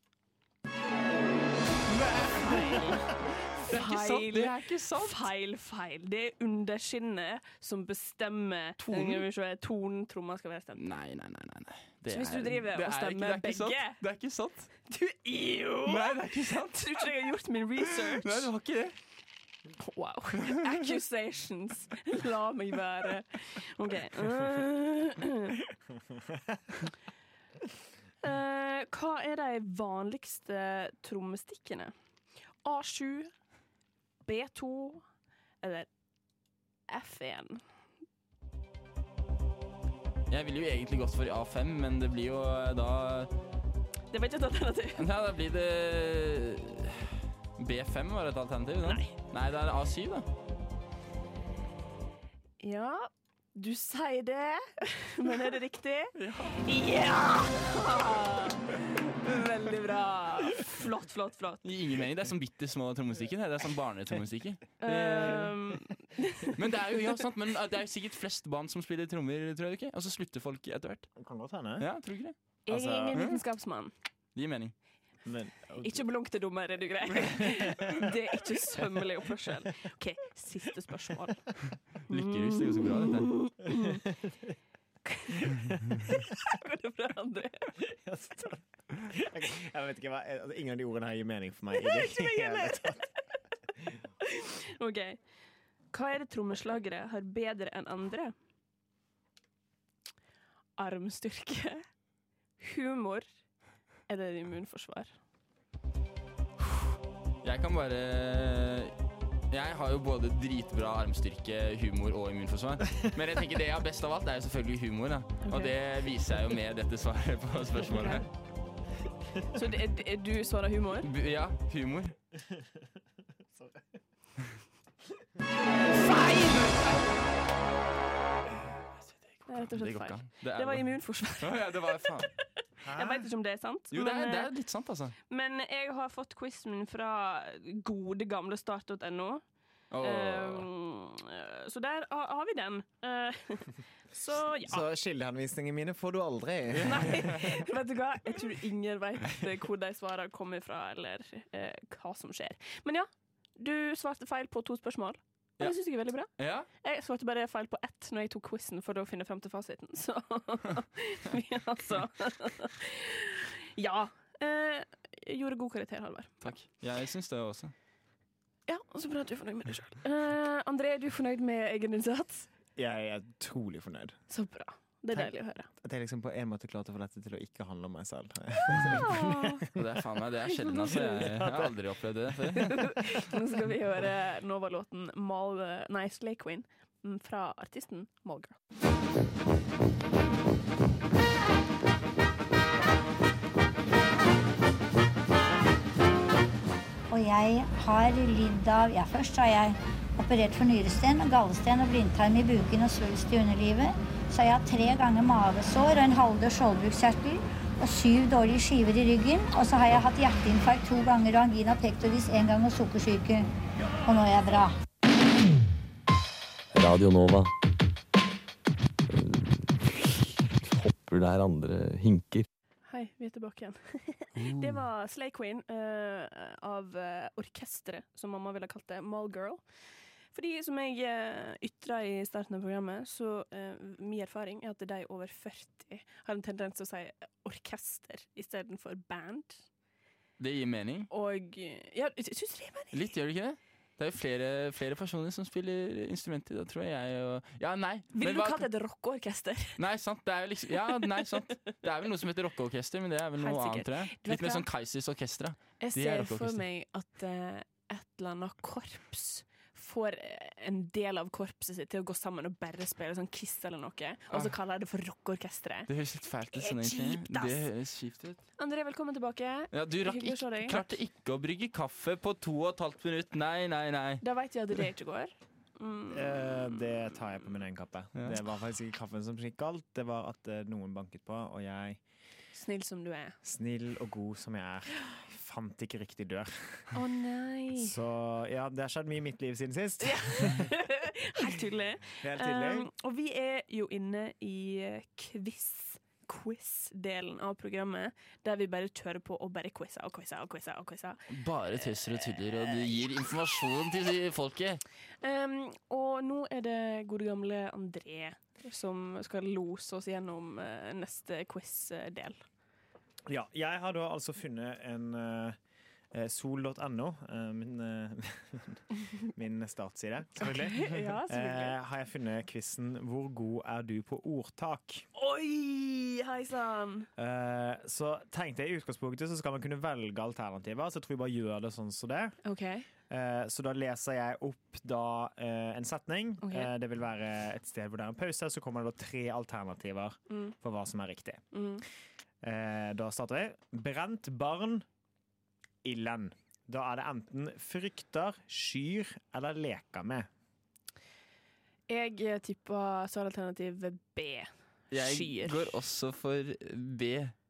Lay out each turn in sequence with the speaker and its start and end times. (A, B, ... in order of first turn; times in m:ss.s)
0:01.9-0:02.9 A
0:02.2-0:10.8 B
0:03.6-0:05.3 A
0:08.8-0:09.2 A
0:10.8-0:14.7 A
0:12.1-0:14.0 B
0:14.8-0:18.5 B
0:15.8-0:17.1 A
0:18.0-0:18.9 A
0:19.8-0:25.6 B
0:26.2-0:26.7 C
0:28.2-0:31.9 B
0:32.6-0:33.3 B
0:34.2-0:35.0 B
0:35.6-0:35.9 B
0:36.9-0:37.6 B
0:40.3-0:43.3 A
0:44.1-0:45.0 B
0:45.0-0:50.2 A
0:48.8-0:49.1 B
0:52.6-1:01.6 B
0:56.2-0:56.6 A
1:01.6-1:05.5 A
1:04.8-1:06.6 B
1:06.5-1:11.1 A
1:11.2-1:11.9 C
1:11.8-1:12.4 A
1:12.7-1:13.2 C
1:12.7-1:13.9 B
1:13.1-1:13.4 A
1:14.3-1:14.8 A
1:15.2-1:16.0 C
1:15.8-1:24.0 B
1:22.1-1:23.5 A
1:24.1-1:24.5 C
1:25.0-1:27.7 B
1:27.8-1:33.0 C
1:31.8-1:33.0 B
1:34.2-1:35.2 B
1:35.9-1:38.3 B
1:40.8-1:41.8 B
1:42.6-1:43.2 B
1:44.1-1:45.1 B
1:47.4-1:48.9 A
1:49.5-1:58.3 A
1:55.4-1:55.7 B
1:57.9-1:58.2 B
1:59.5-2:01.1 B
2:01.0-2:02.1 A
2:03.6-2:03.8 C
2:05.9-2:06.8 B
2:06.5-2:07.0 A
2:09.5-2:12.0 B
2:09.5-2:12.3 A
2:12.8-2:13.3 C
2:12.9-2:14.5 B
2:13.9-2:15.1 A
2:15.3-2:19.4 B
2:19.9-2:20.7 A
2:20.0-2:24.8 B
2:24.6-2:27.4 C
2:26.7-2:27.6 A
2:26.8-2:36.3 B
2:36.3-2:36.7 A
2:36.8-2:46.6 B
2:46.4-2:47.7 A
2:48.7-2:52.5 B
2:52.8-2:54.2 C
2:54.3-2:55.7 B
2:55.1-2:59.6 C
2:58.9-2:59.6 B
2:59.7-3:02.9 A
3:00.5-3:01.2 B
3:01.2-3:01.7 C
3:02.7-3:08.5 B
3:17.1-3:33.5 D
3:34.0-3:34.7 D
3:36.7-3:37.5 E
3:39.1-3:40.1 E
3:40.6-3:42.4 E
3:42.9-3:49.6 B
3:50.3-3:59.6 B
4:00.4-4:01.1 A
4:01.1-4:03.1 B
4:02.9-4:08.7 A
4:08.1-4:09.8 B
4:09.8-4:16.6 A
4:13.4-4:14.6 B
4:15.8-4:25.9 B
4:25.9-4:28.4 A
4:26.5-4:27.6 B
4:28.6-4:30.9 B
4:29.7-4:34.2 A
4:34.2-4:37.2 B
4:36.1-4:42.0 C
4:42.5-4:43.4 B
4:43.4-4:46.9 C
4:46.9-4:47.9 B
4:47.8-4:50.7 C
4:50.0-5:01.2 B
4:52.2-4:52.9 C
5:01.3-5:04.8 A
5:01.8-5:03.0 B
5:05.2-5:12.4 B
5:13.3-5:15.6 C
5:16.1-5:18.8 C
5:19.3-5:25.0 C
5:20.4-5:21.8 B
5:25.1-5:27.1 B
5:27.2-5:32.4 C
5:32.4-5:32.9 B
5:33.1-5:41.5 C
5:36.4-5:36.7 B
5:41.5-5:41.8 B
5:42.4-5:44.8 C
5:45.8-5:50.3 C
5:51.9-5:55.6 B
5:54.9-5:57.3 A